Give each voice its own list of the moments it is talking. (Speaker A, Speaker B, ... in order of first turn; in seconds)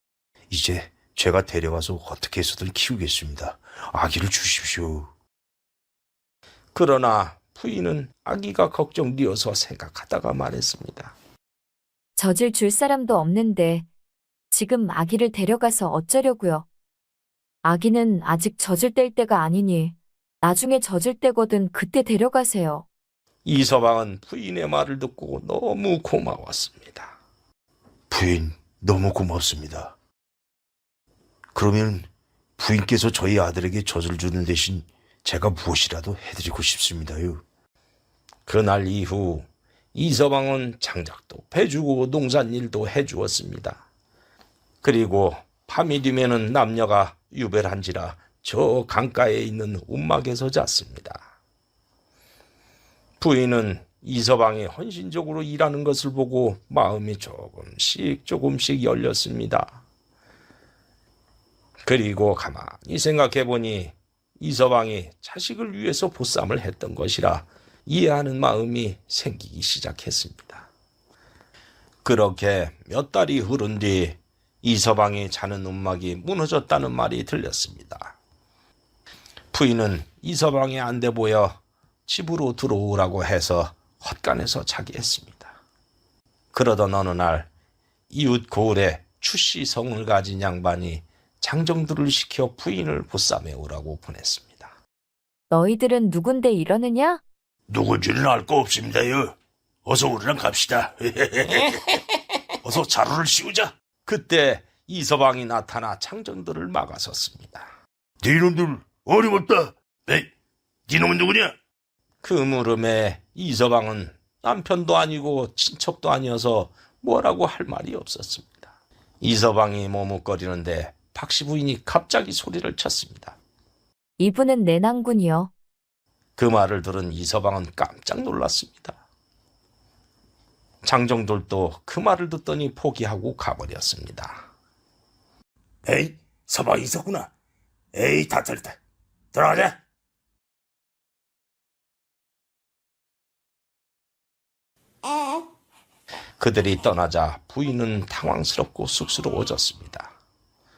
Speaker A: 0.5-5.1, 28.1-29.9, 31.6-32.1, 32.6-37.4, 97.7-99.3, 99.8-101.8, 102.6-103.7, 108.2-110.3, 110.9-111.5, 135.8-137.3, 137.9-138.8, 139.3-139.8
Speaker B: 6.7-11.2, 23.4-27.2, 38.5-43.8, 44.8-51.3, 53.2-59.8, 61.8-70.7, 72.0-78.2, 79.5-85.6, 86.5-87.5, 88.1-94.7, 104.0-107.7, 112.2-123.4, 126.4-129.0, 130.8-134.5, 146.4-150.1
Speaker C: 12.2-13.9, 14.5-16.7, 17.6-22.9, 95.5-97.2, 124.2-125.5